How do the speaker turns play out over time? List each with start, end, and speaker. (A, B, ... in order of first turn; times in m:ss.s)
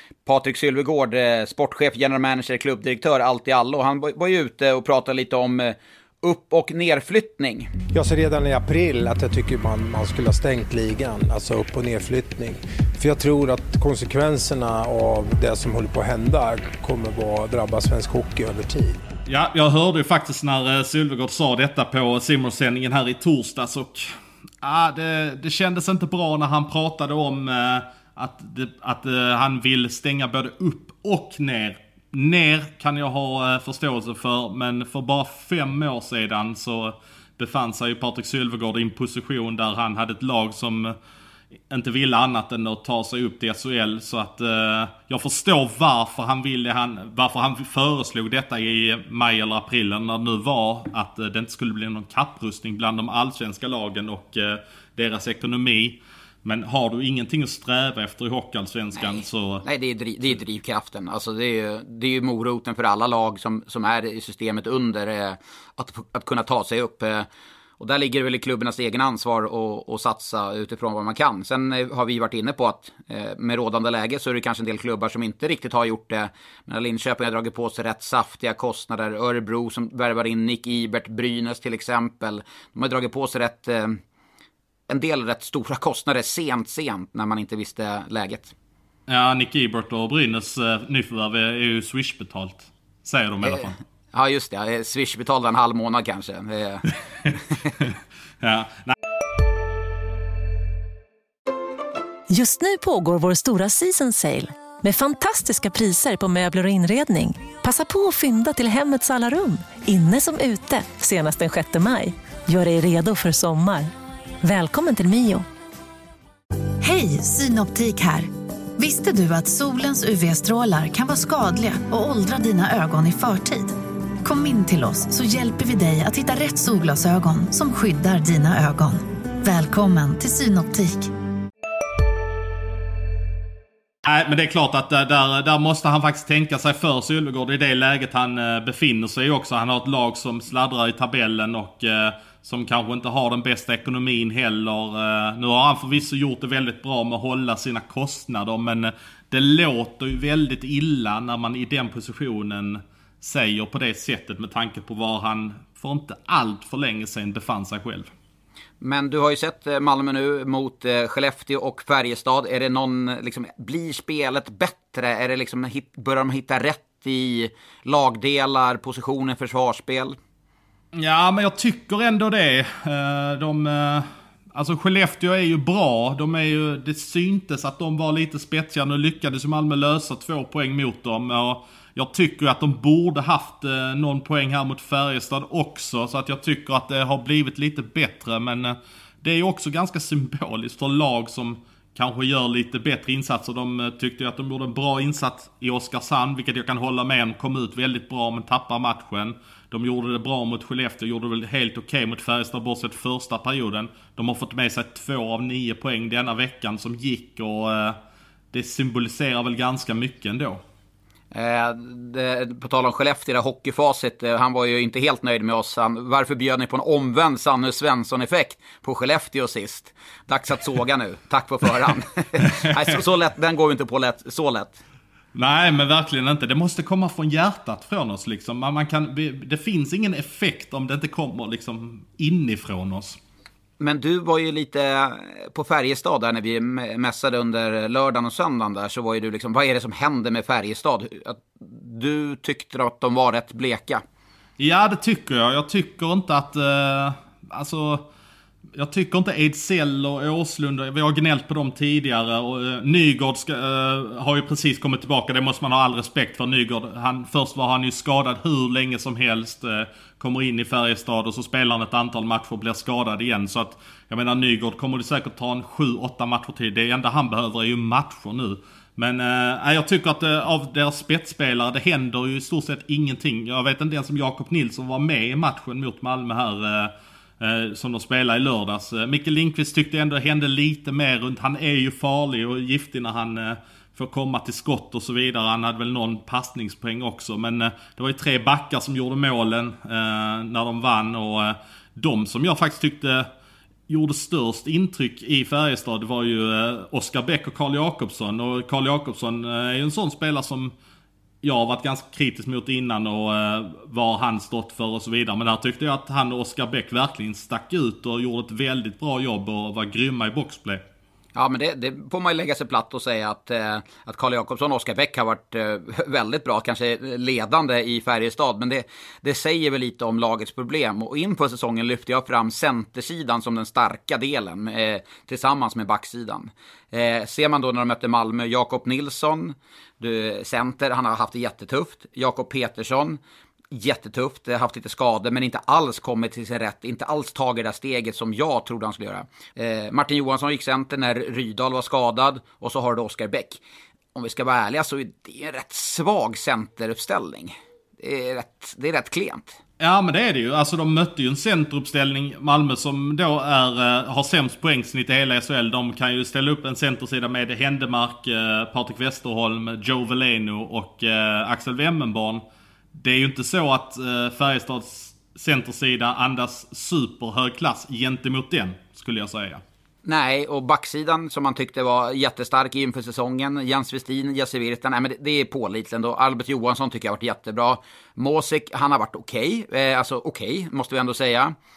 0:00.3-0:07.7 A
0:07.9-0:19.0 B
0:19.3-0:41.0 C
0:41.7-0:59.6 C
0:59.0-1:07.3 A
1:07.8-1:24.0 A
1:24.9-1:28.5 A
1:29.1-1:33.8 C
1:33.4-1:36.9 A
1:37.3-1:39.0 C
1:42.3-1:53.9 D
1:54.4-1:55.5 D
1:56.8-2:11.1 E
2:14.0-2:38.1 C
2:38.8-2:50.2 A
2:50.9-3:28.0 C
3:28.5-3:30.6 C
3:31.3-3:44.8 A
3:45.3-3:53.2 C
3:53.8-4:04.0 A
4:04.6-4:08.1 C
4:08.8-4:53.3 C
4:53.9-5:00.7 C
5:01.4-5:10.8 C
5:11.4-5:33.2 A
5:33.7-5:43.6 A
5:44.2-5:49.6 A
5:49.8-6:02.4 C
6:02.9-6:09.6 C
6:10.0-6:21.6 A